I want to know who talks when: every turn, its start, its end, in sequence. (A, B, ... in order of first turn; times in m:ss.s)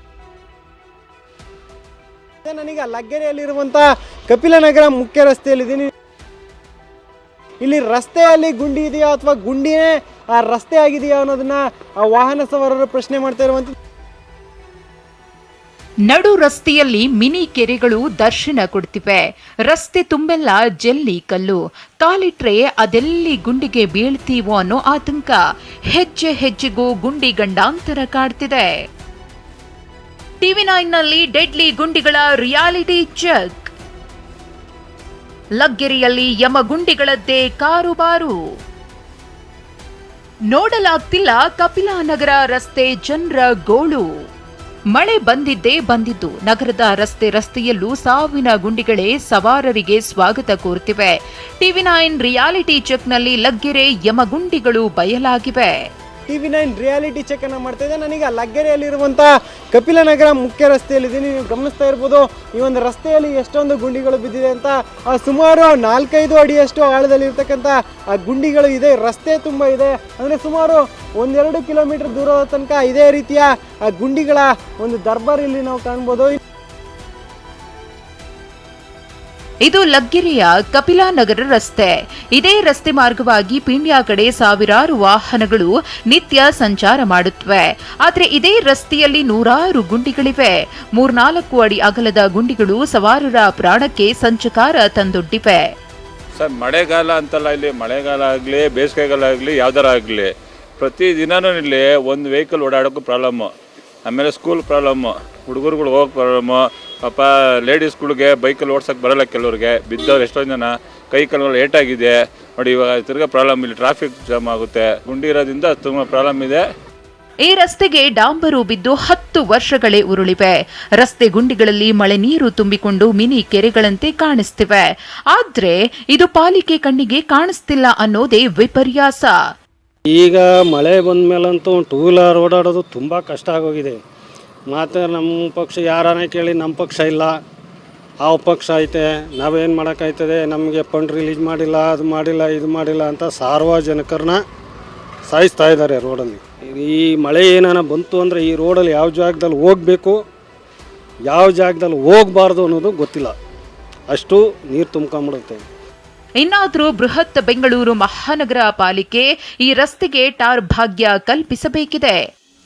0:02.4-0:05.9 A
0:07.6-0:13.7 A
0:16.1-0:28.8 B
0:30.4-0:33.7 B
0:35.6-0:38.4 B
0:40.5-0:44.1 B
0:44.9-0:55.8 B
0:56.3-1:16.4 A
1:19.6-1:35.7 B
1:36.4-1:43.5 C
1:44.1-1:56.6 C
1:57.4-2:09.4 B
2:10.1-2:14.0 D
2:14.7-2:17.4 D
2:18.2-2:24.4 D
2:25.3-2:30.2 D
2:31.3-2:33.4 D
2:34.1-2:35.6 D
2:36.4-2:42.2 B